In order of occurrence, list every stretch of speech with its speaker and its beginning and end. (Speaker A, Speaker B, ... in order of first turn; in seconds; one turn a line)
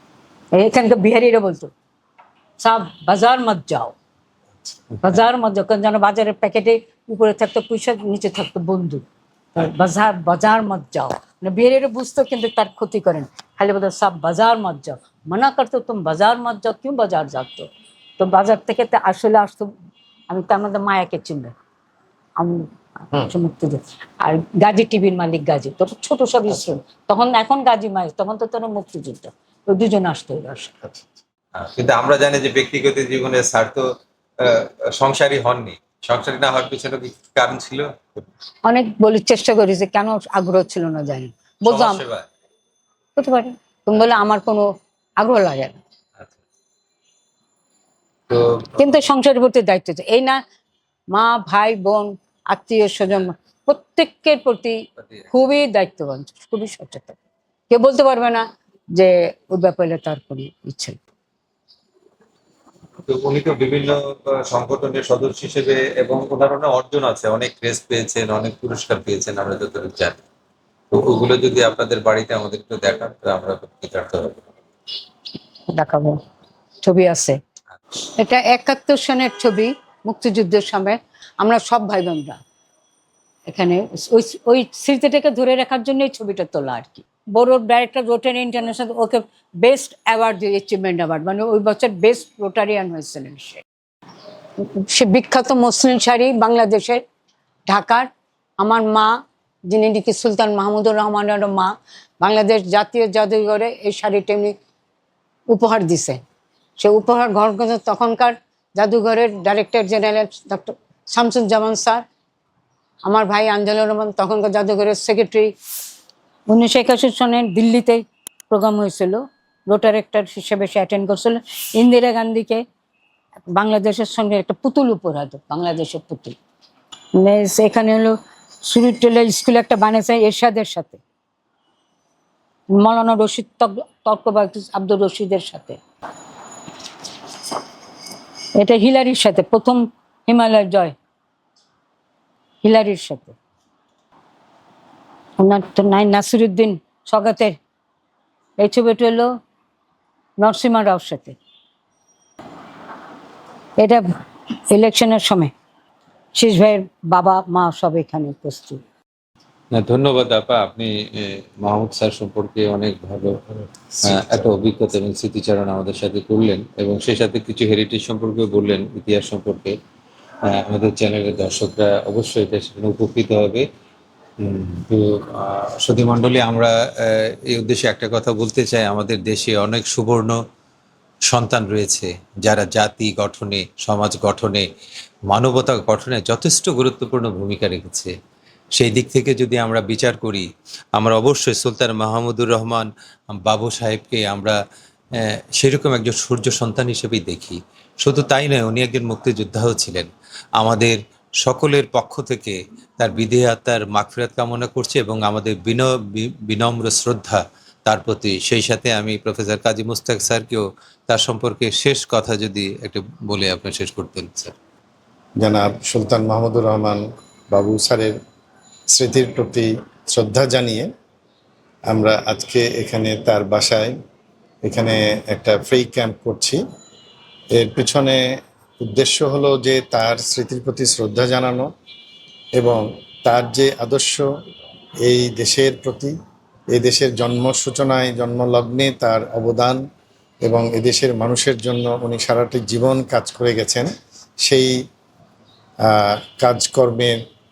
Speaker A: 0.5-1.7
Speaker A: 2.6-3.9
Speaker B: 4.9-5.2
Speaker A: 5.0-9.0
Speaker A: 9.5-17.7
Speaker A: 18.2-19.7
Speaker A: 20.3-21.5
Speaker A: 22.4-31.0
Speaker B: 31.5-33.8
Speaker B: 34.4-37.9
Speaker A: 38.6-42.0
Speaker B: 41.6-42.3
Speaker A: 43.1-44.6
Speaker A: 45.2-45.8
Speaker B: 48.3-49.0
Speaker A: 48.8-50.4
Speaker A: 51.1-54.8
Speaker B: 55.0-55.3
Speaker A: 55.3-57.2
Speaker A: 57.7-61.0
Speaker B: 63.1-70.2
Speaker B: 70.9-74.4
Speaker A: 75.7-76.2
Speaker A: 76.8-77.4
Speaker A: 78.2-82.4
Speaker A: 83.5-93.6
Speaker A: 94.6-97.0
Speaker A: 97.7-98.1
Speaker A: 98.6-99.1
Speaker A: 99.7-104.5
Speaker A: 105.5-106.2
Speaker A: 106.8-112.0
Speaker A: 113.0-115.5
Speaker A: 116.5-122.6
Speaker A: 123.5-126.4
Speaker A: 127.2-131.0
Speaker A: 132.7-135.8
Speaker A: 138.6-140.9
Speaker A: 142.6-143.4
Speaker A: 145.4-147.6
Speaker A: 148.6-149.3
Speaker A: 150.4-151.4
Speaker A: 154.7-155.5
Speaker A: 156.3-158.8
Speaker B: 159.7-163.4
Speaker B: 164.0-169.7
Speaker B: 170.5-173.7
Speaker B: 174.4-180.4
Speaker B: 181.3-184.6
Speaker B: 185.3-188.1
Speaker B: 188.8-194.6
Speaker B: 195.2-214.5
Speaker C: 215.4-218.1
Speaker C: 218.9-220.9
Speaker C: 221.9-223.9
Speaker C: 224.6-226.6
Speaker C: 227.5-231.7
Speaker C: 232.6-234.3
Speaker C: 235.0-236.1
Speaker C: 236.7-239.8
Speaker C: 240.4-243.9
Speaker C: 244.4-244.8
Speaker C: 245.8-247.2